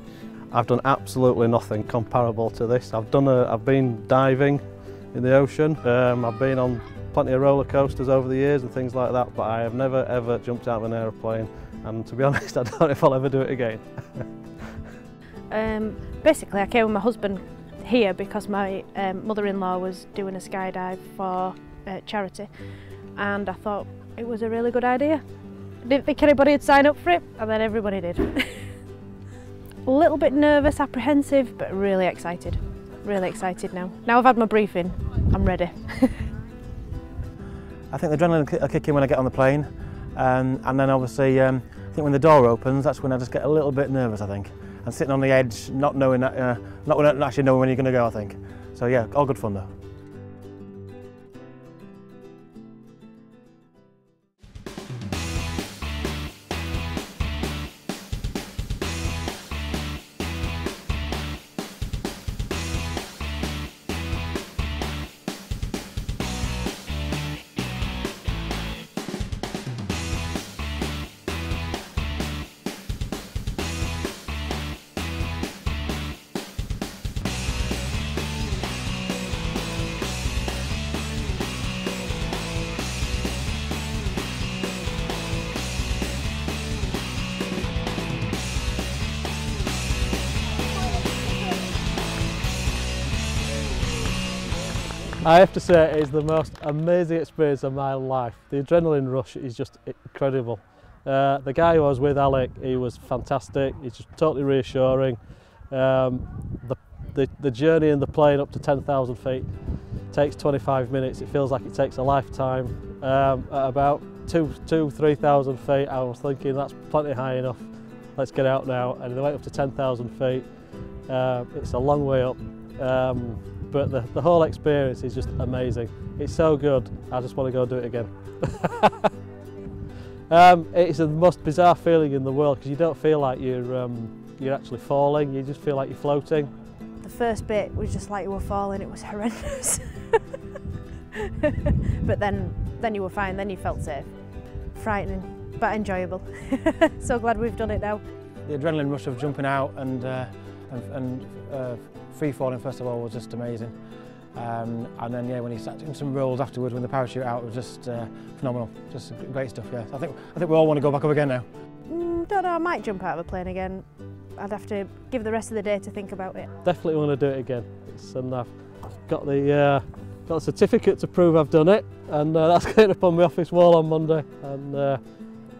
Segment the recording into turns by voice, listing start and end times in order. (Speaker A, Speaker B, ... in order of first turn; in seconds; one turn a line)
Speaker A: 0.5-14.5
Speaker B: 15.5-25.3
Speaker B: 25.8-28.7
Speaker B: 29.8-36.3
Speaker C: 37.9-49.7
Speaker A: 95.2-129.1
Speaker A: 130.3-136.5
Speaker B: 137.0-140.2
Speaker B: 141.2-148.0
Speaker C: 148.4-153.8
Speaker C: 154.3-161.4
Speaker B: 161.8-166.5
Speaker A: 166.6-175.4